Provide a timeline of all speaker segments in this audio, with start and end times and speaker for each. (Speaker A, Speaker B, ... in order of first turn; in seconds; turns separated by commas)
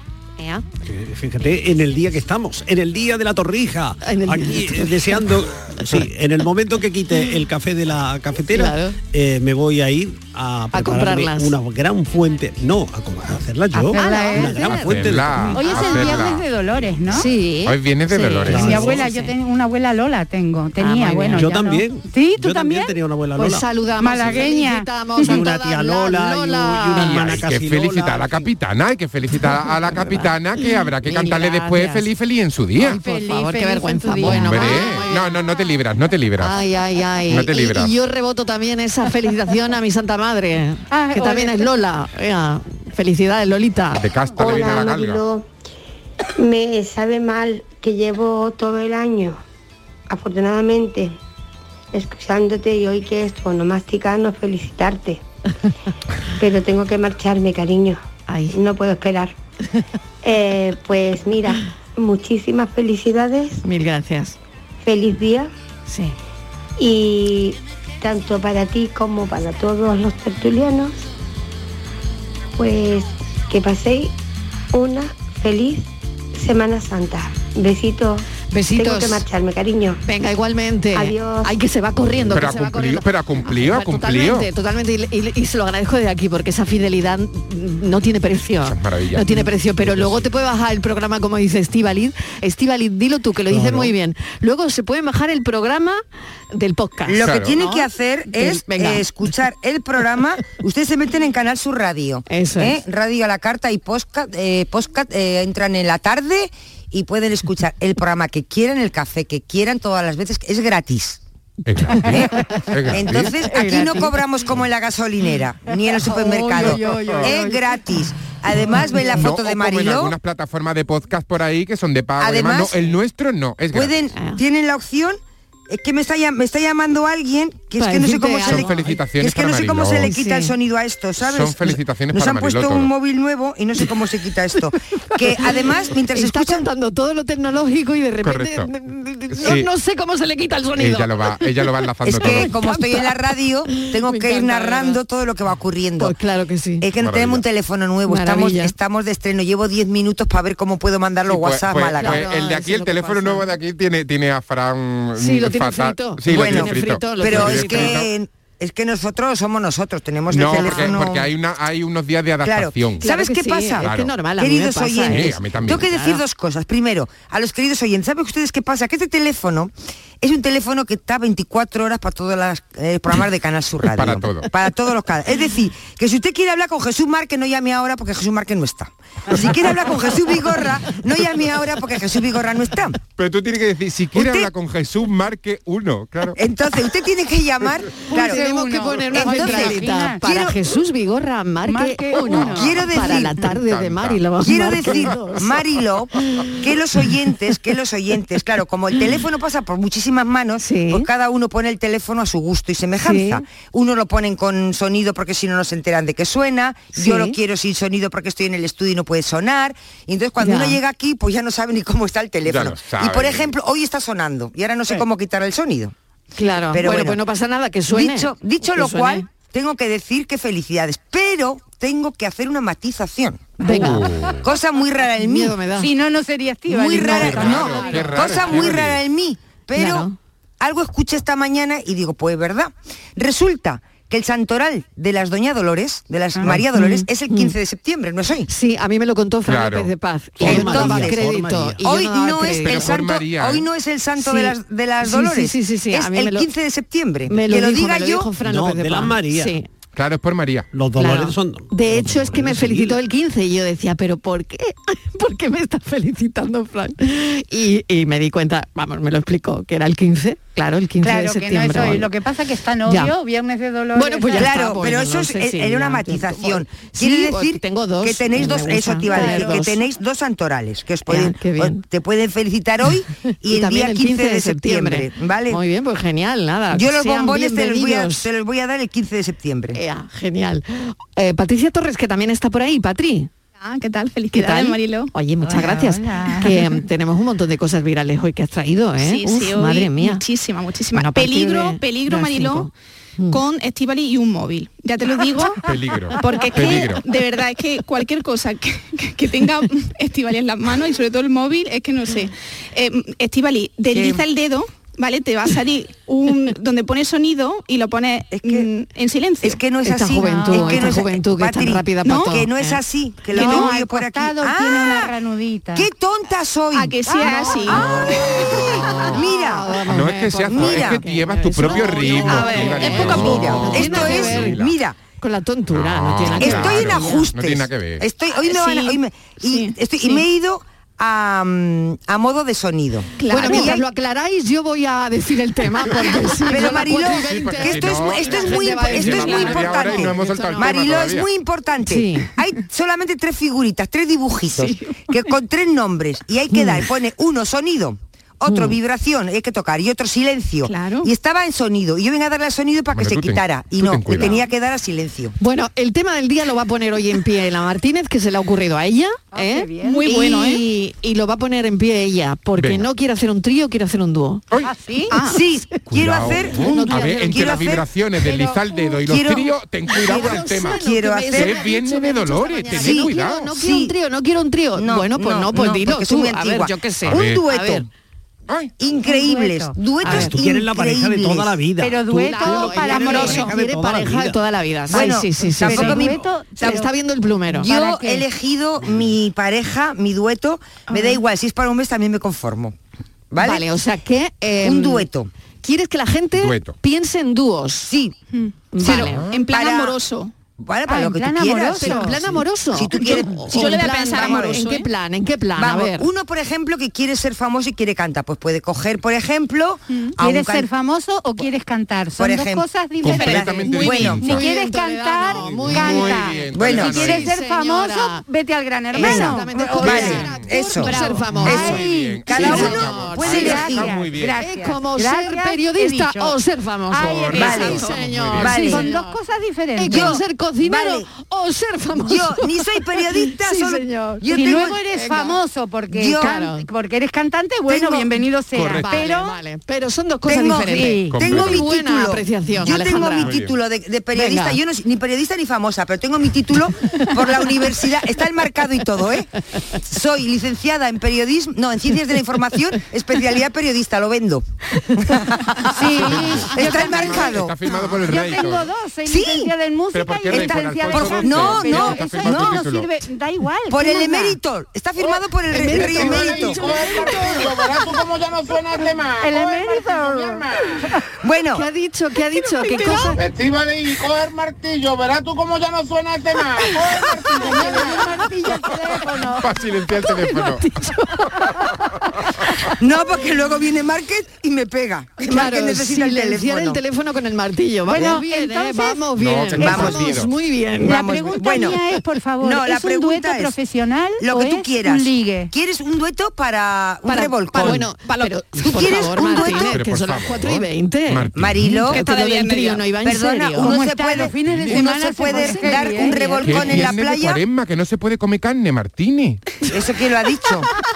Speaker A: 0.4-0.6, Speaker B: 0.8-15.6, Speaker A: 4.0-5.3, Speaker A: 5.8-6.1, Speaker A: 8.5-9.0, Speaker A: 10.7-11.5, Speaker C: 13.7-14.6, Speaker A: 13.9-16.2, Speaker D: 14.7-16.5, Speaker C: 15.5-17.3, Speaker A: 17.1-19.3, Speaker D: 17.6-18.9, Speaker B: 18.5-19.0, Speaker C: 18.5-23.0, Speaker A: 20.8-21.5, Speaker B: 21.3-23.7, Speaker A: 23.4-27.5, Speaker C: 24.0-25.4, Speaker B: 25.2-28.5, Speaker D: 26.9-33.0, Speaker A: 29.4-32.0, Speaker A: 32.8-35.4, Speaker C: 32.8-35.0, Speaker D: 34.2-36.5, Speaker A: 36.4-44.0, Speaker D: 37.3-37.9, Speaker C: 40.9-41.7, Speaker D: 43.9-45.2, Speaker E: 44.4-45.5, Speaker E: 46.4-49.4, Speaker E: 50.1-51.1, Speaker E: 51.9-55.2, Speaker E: 56.4-58.0, Speaker A: 58.3-58.6, Speaker E: 58.5-59.3, Speaker E: 60.2-63.6, Speaker A: 63.6-64.4, Speaker E: 64.8-65.5, Speaker A: 65.9-66.2, Speaker E: 66.8-71.0, Speaker E: 72.6-74.1, Speaker E: 74.7-80.0, Speaker A: 78.5-79.2, Speaker A: 80.0-96.0, Speaker E: 80.9-81.5, Speaker D: 82.3-84.5, Speaker D: 88.7-89.4, Speaker B: 89.9-90.2, Speaker B: 93.5-93.9, Speaker A: 96.5-99.0, Speaker F: 97.1-111.2, Speaker D: 97.2-97.5, Speaker A: 102.3-102.8, Speaker D: 111.7-113.3, Speaker F: 112.0-112.3, Speaker F: 112.9-120.1, Speaker A: 113.4-114.1, Speaker C: 113.6-114.0, Speaker C: 115.7-117.7, Speaker D: 116.9-117.2, Speaker D: 119.1-123.9, Speaker F: 122.2-123.0, Speaker F: 123.7-136.7, Speaker A: 127.8-129.0, Speaker D: 128.4-130.1, Speaker A: 130.0-130.5, Speaker D: 131.2-132.9, Speaker A: 136.1-141.6, Speaker D: 138.2-138.7, Speaker D: 139.3-139.7, Speaker D: 140.8-142.6, Speaker F: 142.0-146.1, Speaker A: 142.2-143.1, Speaker A: 143.7-145.0, Speaker A: 146.0-146.8, Speaker F: 146.8-152.2, Speaker D: 147.0-147.4, Speaker A: 148.1-148.7, Speaker D: 151.3-158.1, Speaker A: 151.9-153.4, Speaker A: 155.2-158.0, Speaker F: 156.3-161.3, Speaker D: 160.3-163.1, Speaker A: 160.5-160.9, Speaker F: 162.4-183.0, Speaker A: 163.0-166.2, Speaker D: 163.8-164.2, Speaker D: 165.1-165.8, Speaker D: 173.9-174.5, Speaker D: 183.1-186.4, Speaker F: 184.1-184.5, Speaker F: 186.3-188.4, Speaker C: 188.1-190.5, Speaker A: 188.1-195.6, Speaker F: 189.1-190.5, Speaker C: 191.6-192.7, Speaker F: 192.4-193.4, Speaker D: 193.5-194.2, Speaker F: 194.4-215.9, Speaker A: 200.6-201.1, Speaker A: 203.0-203.4, Speaker A: 206.9-207.3, Speaker A: 210.4-210.8, Speaker D: 212.4-213.5, Speaker A: 216.4-219.2, Speaker F: 216.7-217.2, Speaker F: 217.9-223.8, Speaker A: 223.6-224.1, Speaker D: 223.7-224.3, Speaker F: 224.4-225.6, Speaker A: 225.2-225.9, Speaker C: 225.8-228.6, Speaker F: 226.7-230.1, Speaker D: 227.1-229.0, Speaker A: 229.7-230.1, Speaker F: 230.6-238.5, Speaker A: 236.5-237.5, Speaker A: 238.5-242.9, Speaker D: 239.5-239.9, Speaker B: 240.4-241.8, Speaker F: 240.4-241.2, Speaker F: 241.8-248.3, Speaker D: 242.5-243.7, Speaker A: 244.2-246.5, Speaker A: 247.3-249.7, Speaker B: 248.4-249.5, Speaker D: 249.9-250.7, Speaker B: 250.7-253.0, Speaker A: 251.0-262.1, Speaker C: 261.0-264.5, Speaker A: 262.9-263.1, Speaker A: 263.9-269.8, Speaker F: 264.3-275.6, Speaker A: 271.1-271.8, Speaker A: 273.4-278.3, Speaker F: 276.7-279.8, Speaker A: 279.7-283.3, Speaker G: 283.6-285.1, Speaker A: 284.3-290.2, Speaker C: 285.4-286.8, Speaker G: 289.0-292.7, Speaker A: 290.9-293.4, Speaker G: 293.3-295.6, Speaker D: 295.6-297.0, Speaker G: 296.2-309.6, Speaker F: 303.9-304.2, Speaker F: 308.3-308.7, Speaker F: 309.4-315.1, Speaker A: 309.8-312.8, Speaker C: 310.2-310.9, Speaker G: 312.0-312.4, Speaker C: 313.3-315.9, Speaker A: 313.3-313.7, Speaker F: 315.7-317.0, Speaker G: 316.7-318.9, Speaker C: 317.0-317.8, Speaker D: 317.8-319.2, Speaker A: 318.7-324.6, Speaker F: 319.1-319.8, Speaker D: 319.9-324.7, Speaker F: 320.5-321.0, Speaker G: 322.4-323.4, Speaker F: 322.8-325.0, Speaker A: 325.2-327.3, Speaker D: 325.7-328.1, Speaker F: 326.3-333.8, Speaker G: 328.3-330.2, Speaker G: 333.2-333.8, Speaker A: 333.3-340.8, Speaker F: 336.5-355.3, Speaker D: 336.8-341.3, Speaker A: 341.9-342.3, Speaker G: 344.5-345.2, Speaker A: 346.5-346.8, Speaker A: 348.4-348.8, Speaker G: 350.6-351.1, Speaker D: 352.9-354.3, Speaker A: 355.4-364.4, Speaker C: 359.3-360.1, Speaker G: 359.8-360.6, Speaker D: 362.6-362.9, Speaker C: 364.6-365.1, Speaker G: 365.1-365.4, Speaker F: 365.2-367.9, Speaker D: 365.9-373.5, Speaker A: 366.4-367.8, Speaker C: 368.5-368.7, Speaker F: 369.0-371.6, Speaker A: 369.9-377.9, Speaker F: 372.7-373.9, Speaker F: 374.8-377.9, Speaker D: 377.0-377.4, Speaker D: 378.5-378.7, Speaker F: 378.8-381.5, Speaker C: 379.0-379.8, Speaker A: 380.0-380.4, Speaker B: 380.1-384.4, Speaker C: 381.8-383.5, Speaker A: 382.1-387.8, Speaker F: 384.9-386.2, Speaker C: 384.9-386.9, Speaker F: 387.6-392.8, Speaker C: 387.7-388.2, Speaker G: 390.9-391.2, Speaker F: 393.3-393.7, Speaker A: 393.4-395.1, Speaker F: 394.6-395.3, Speaker A: 395.6-397.9, Speaker D: 396.4-396.8, Speaker F: 397.9-398.1, Speaker G: 398.3-400.3, Speaker A: 398.7-399.2, Speaker F: 398.8-400.0, Speaker D: 399.0-399.4, Speaker F: 400.6-404.6, Speaker C: 400.9-402.3, Speaker A: 401.8-406.1, Speaker G: 402.9-404.9, Speaker F: 405.6-410.7, Speaker C: 410.2-426.4, Speaker F: 412.1-414.2, Speaker D: 413.0-414.5, Speaker G: 413.1-414.1, Speaker A: 413.8-418.2, Speaker B: 415.4-415.8, Speaker D: 415.7-417.3, Speaker F: 416.5-417.1, Speaker A: 418.9-423.8, Speaker F: 419.0-423.9, Speaker D: 421.5-424.4, Speaker A: 424.4-429.2, Speaker C: 426.9-430.2, Speaker D: 427.0-428.5, Speaker F: 427.3-427.8, Speaker F: 428.4-428.9, Speaker A: 429.8-435.4, Speaker F: 429.9-431.1, Speaker F: 432.0-434.8, Speaker C: 434.3-439.4, Speaker F: 435.9-436.3, Speaker A: 436.1-436.6, Speaker F: 437.7-438.2, Speaker D: 438.5-438.9, Speaker A: 438.7-443.3, Speaker F: 440.2-457.6, Speaker C: 440.6-441.2, Speaker D: 441.1-441.6, Speaker D: 443.2-443.5, Speaker A: 444.1-444.6, Speaker C: 455.7-457.4, Speaker D: 456.0-458.7, Speaker C: 458.0-464.4, Speaker F: 459.1-459.5, Speaker D: 459.9-462.9, Speaker F: 460.3-462.6, Speaker F: 463.7-466.6, Speaker A: 465.0-467.6, Speaker H: 465.7-470.8, Speaker C: 469.2-470.5, Speaker F: 471.2-471.6, Speaker A: 471.5-473.2, Speaker H: 473.1-477.9, Speaker C: 477.3-479.5, Speaker D: 479.4-480.7, Speaker A: 480.1-481.3, Speaker F: 482.8-486.8, Speaker A: 485.2-491.1, Speaker C: 487.9-489.1, Speaker D: 489.1-490.3, Speaker F: 489.6-490.0, Speaker C: 489.6-489.9, Speaker F: 490.8-491.8, Speaker C: 490.8-495.5, Speaker F: 492.4-493.6, Speaker F: 494.2-497.9, Speaker A: 497.1-503.8, Speaker G: 498.0-498.4, Speaker F: 498.6-499.8, Speaker D: 499.4-501.8, Speaker F: 501.3-502.0, Speaker G: 501.9-502.9, Speaker F: 503.0-507.4, Speaker C: 503.6-506.8, Speaker A: 505.2-506.4, Speaker D: 506.4-509.4, Speaker F: 509.7-510.7